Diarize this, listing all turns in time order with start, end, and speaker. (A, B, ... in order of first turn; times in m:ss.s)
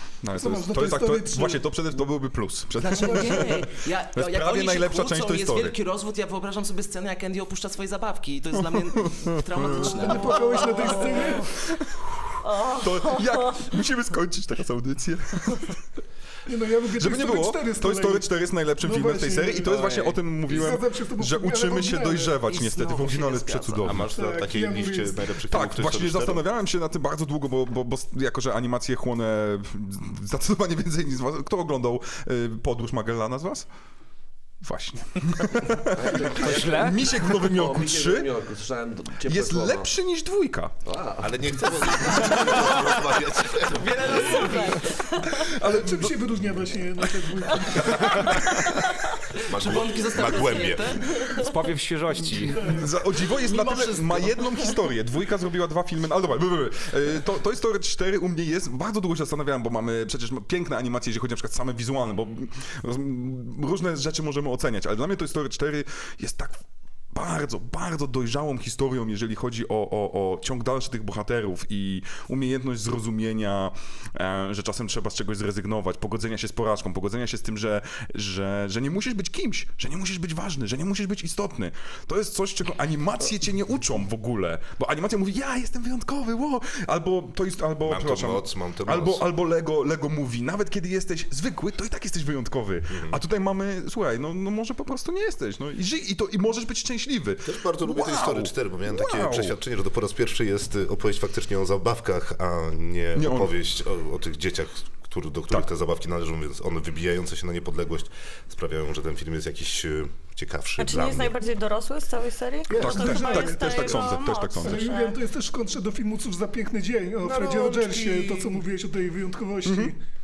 0:00.2-0:05.8 A
0:00.3-0:01.7 B
0:02.8-0:11.0 C
0:03.0-0:03.6 B
0:08.6-0:10.0 A
0:09.7-0:11.5 B
0:10.0-0:11.6 D
0:12.4-0:13.7 D
0:12.8-0:15.7 A
0:16.5-0:19.8 B
0:16.9-0:24.1 A
0:19.7-0:20.2 E
0:20.5-0:22.4 B
0:22.5-0:24.0 C
0:23.8-0:26.4 F
0:24.1-0:25.2 B
0:25.5-0:33.7 A
0:34.6-0:38.3 A
0:35.9-0:39.9 G
0:36.4-0:37.0 E
0:39.3-0:40.7 A
0:40.8-0:42.6 G
0:41.2-0:44.7 F
0:43.7-0:44.9 C
0:44.0-0:45.6 D
0:45.4-0:46.1 A
0:45.6-0:48.3 B
0:47.7-0:49.0 D
0:47.8-0:48.6 A
0:49.4-0:51.0 F
0:49.5-0:51.1 C
0:51.4-0:52.6 E
0:52.6-1:06.6 A
0:53.4-0:54.5 C
1:07.1-1:39.6 A
1:27.8-1:29.2 F
1:32.9-1:33.2 F
1:37.4-1:51.4 F
1:43.2-1:43.5 A
1:50.8-1:55.2 D
1:52.7-2:00.0 B
1:52.7-1:54.9 A
1:57.3-1:58.5 D
1:59.6-1:59.9 A